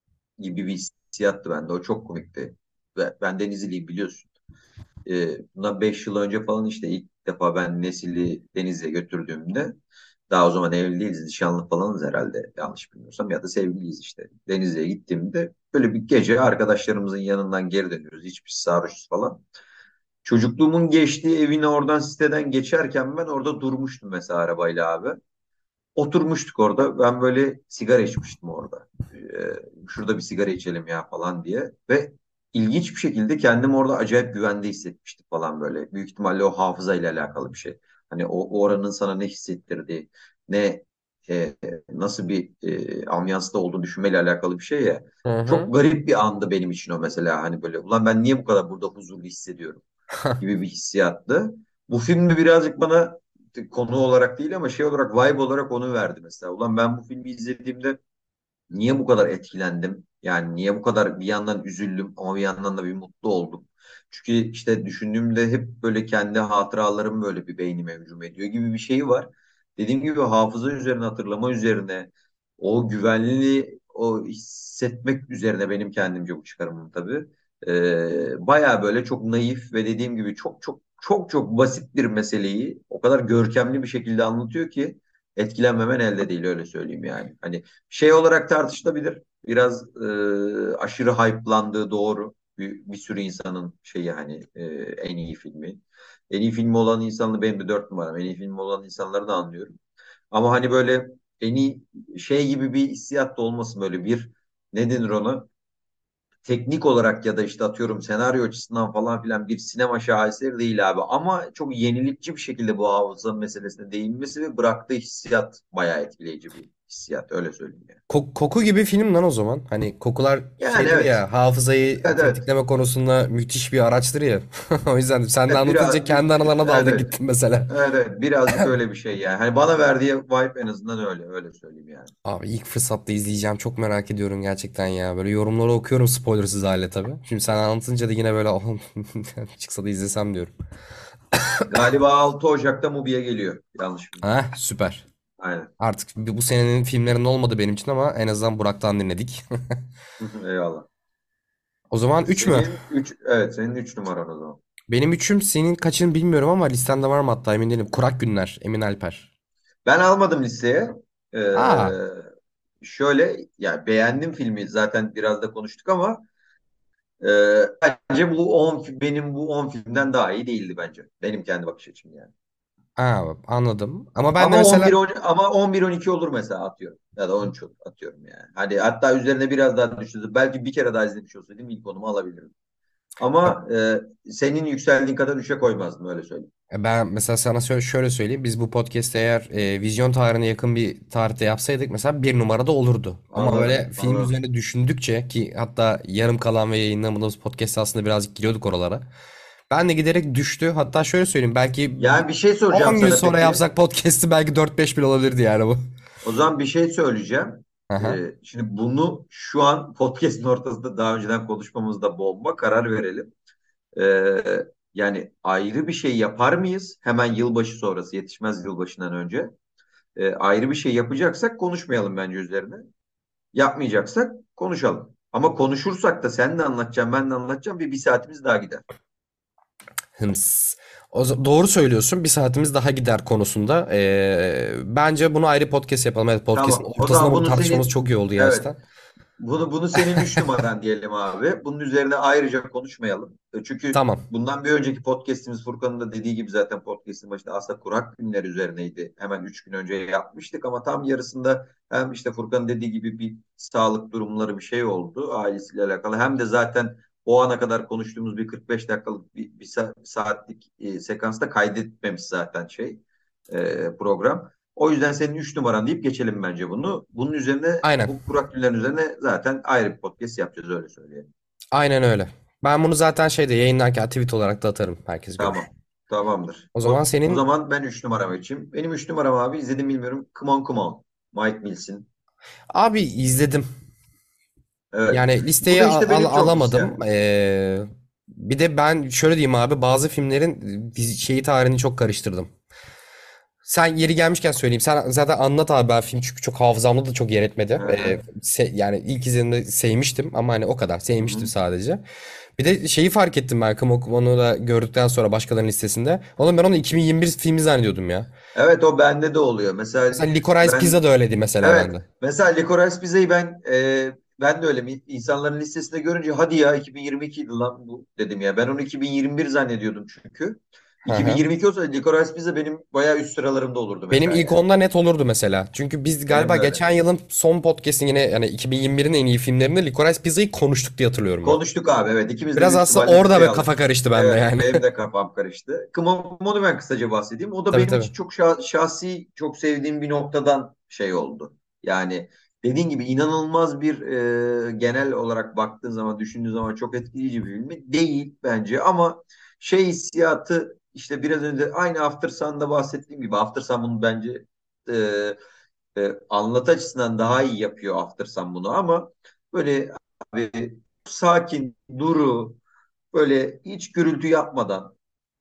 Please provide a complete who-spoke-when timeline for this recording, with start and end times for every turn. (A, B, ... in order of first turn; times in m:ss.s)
0:00.4-0:04.3 A
0:05.0-0:09.7 A
0:10.3-0:19.4 A
0:20.2-0:25.2 A
0:26.0-0:49.8 A
0:45.2-0:45.7 B
0:50.4-0:58.0 A
0:58.7-1:39.8 A
1:40.3-1:45.5 A
1:46.4-1:58.0 A
1:58.1-2:07.7 B
2:00.6-2:01.2 A
2:02.0-2:02.4 A
2:05.5-2:07.1 A
2:07.7-2:12.1 A
2:12.2-2:20.5 B
2:21.3-2:21.6 B
2:21.7-2:24.2 A
2:24.2-2:25.0 B
2:25.4-2:25.7 A
2:25.8-2:29.8 B
2:30.2-2:30.9 A
2:31.9-2:32.7 B
2:32.3-2:34.6 A
2:34.9-2:39.3 B
2:39.8-2:42.2 A
2:41.5-2:41.9 B
2:42.8-2:46.2 A
2:47.2-2:52.3 A
2:53.0-2:55.0 B
2:54.4-3:02.5 A
3:03.2-3:06.5 A
3:06.7-3:19.0 B
3:13.3-3:14.3 A
3:19.7-3:25.8 B
3:22.0-3:23.6 A
3:26.2-3:33.3 A
3:27.9-3:28.2 B
3:34.0-3:39.5 A
3:40.2-3:42.9 A
3:43.5-3:48.8 A
3:50.2-3:58.8 B
3:56.5-3:58.7 A
3:59.4-4:31.3 A
4:00.2-4:00.4 B
4:03.9-4:04.2 B
4:27.8-4:28.1 B
4:31.7-4:35.7 B
4:35.4-4:42.1 A
4:36.7-4:37.4 B
4:42.7-4:43.6 B
4:44.9-4:46.9 A
4:45.1-4:52.5 B
4:53.6-5:02.0 B
4:57.8-4:58.2 A
5:01.2-5:01.5 A
5:02.6-5:08.3 B
5:08.5-5:11.0 A
5:10.1-5:12.0 B
5:11.6-5:24.6 A
5:21.0-5:21.4 B
5:24.1-5:31.6 B
5:26.3-5:27.0 A
5:31.4-5:55.4 A
5:32.6-5:34.8 B
5:37.7-5:38.1 B
5:56.0-6:02.6 A
6:03.1-6:04.9 A